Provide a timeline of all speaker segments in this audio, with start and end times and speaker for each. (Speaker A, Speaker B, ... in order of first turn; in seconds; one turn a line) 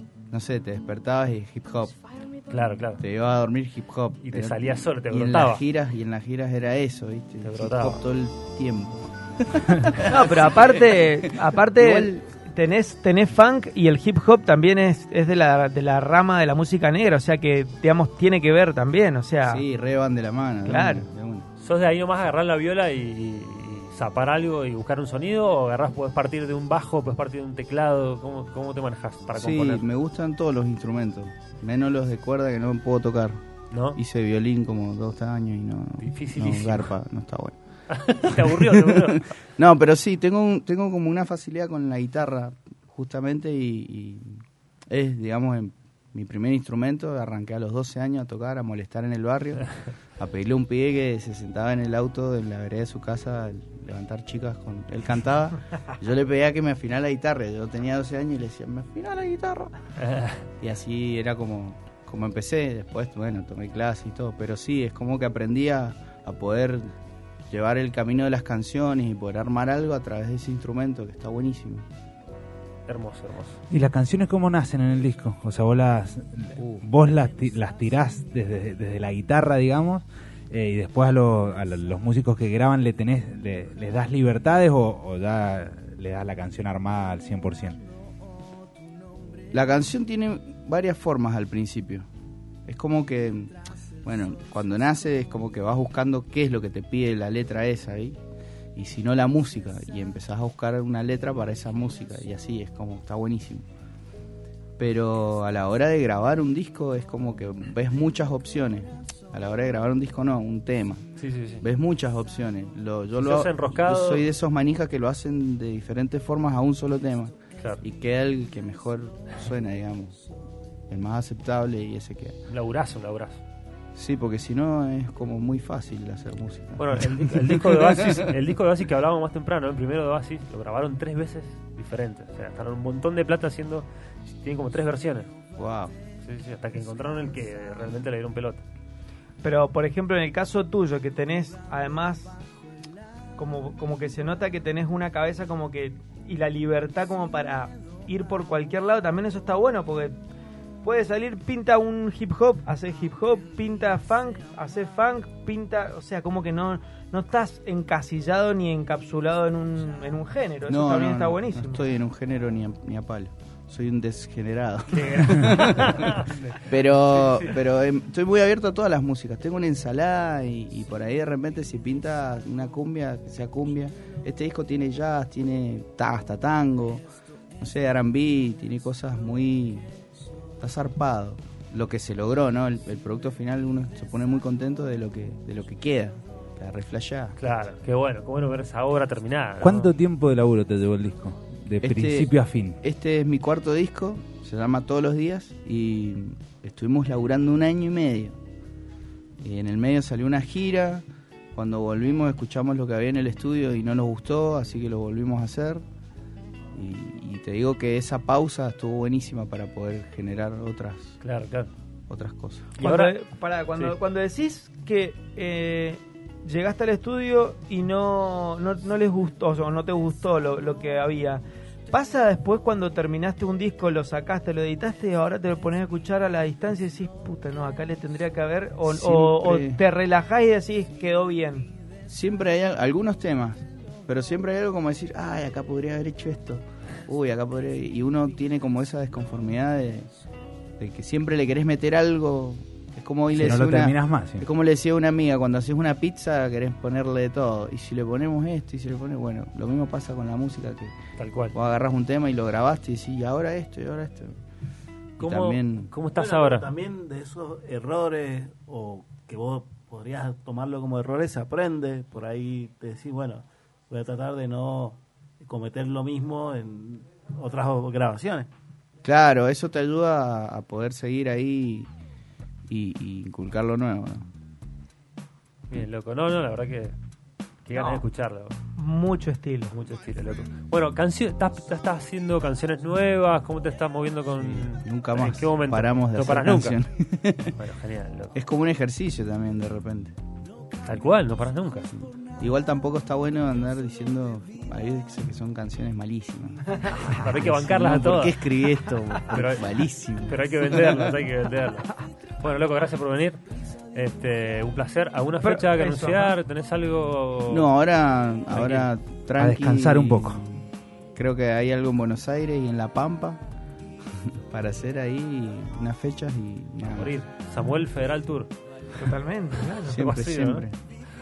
Speaker A: 0.3-2.0
Speaker B: 2.5-3.0
Speaker A: 2.9-12.3
Speaker B: 4.2-5.6
Speaker B: 7.4-8.0
Speaker C: 10.1-19.6
Speaker A: 19.4-21.5
Speaker C: 20.6-21.1
Speaker B: 21.6-29.8
Speaker A: 29.4-33.4
Speaker B: 33.7-34.0
Speaker A: 34.0-37.6
Speaker B: 36.0-36.9
Speaker B: 37.9-39.2
Speaker A: 38.3-49.7
Speaker A: 50.2-59.7
Speaker B: 60.0-60.4
Speaker A: 60.6-66.9
Speaker A: 67.5-71.8
Speaker B: 72.9-73.6
Speaker D: 73.7-87.8
Speaker A: 76.6-76.8
Speaker A: 89.5-92.1
Speaker A: 92.7-93.5
Speaker A: 94.0-98.2
Speaker A: 98.8-103.7
Speaker A: 104.8-111.1
Speaker B: 111.2-111.6
Speaker A: 111.6-120.2
Speaker B: 113.2-114.3
Speaker B: 117.6-117.8
Speaker A: 120.9-122.4
Speaker B: 122.5-123.4
Speaker A: 124.0-127.1
Speaker B: 126.8-133.9
Speaker B: 134.4-135.3
Speaker A: 135.6-135.9
Speaker B: 136.2-138.6
Speaker C: 139.4-142.4
Speaker C: 143.4-150.2
Speaker C: 150.8-161.8
Speaker A: 160.7-177.0
Speaker B: 164.9-167.5
Speaker A: 177.6-179.8
Speaker A: 180.6-187.4
Speaker B: 187.4-189.9
Speaker D: 189.6-192.8
Speaker A: 191.8-198.4
Speaker A: 199.4-201.0
Speaker A: 201.6-205.8
Speaker A: 206.8-211.2
Speaker B: 211.2-211.7
Speaker A: 212.1-212.7
Speaker B: 212.8-213.1
Speaker C: 212.8-231.7
Speaker A: 228.9-229.8
Speaker A: 232.1-240.1
Speaker A: 240.8-250.9
Speaker D: 243.3-244.4
Speaker B: 251.2-251.6
Speaker A: 251.5-254.3
Speaker A: 255.2-255.9
Speaker B: 255.2-256.7
Speaker E: 256.1-268.5
Speaker A: 269.0-271.9
Speaker A: 272.7-274.3
Speaker B: 275.7-276.9
Speaker B: 277.7-278.6
Speaker C: 277.7-278.0
Speaker C: 278.8-279.8
Speaker B: 279.7-286.8
Speaker A: 284.4-287.6
Speaker B: 287.6-288.4
Speaker A: 288.4-290.1
Speaker B: 290.9-291.9
Speaker A: 292.4-301.2
Speaker B: 297.0-298.4
Speaker B: 299.3-299.7
Speaker B: 300.2-303.4
Speaker B: 303.9-307.7
Speaker C: 305.4-306.4
Speaker A: 307.5-313.4
Speaker B: 308.5-308.9
Speaker D: 309.4-310.4
Speaker A: 314.3-317.1
Speaker B: 316.9-318.5
Speaker C: 319.0-320.0
Speaker A: 319.9-320.8
Speaker B: 319.9-320.7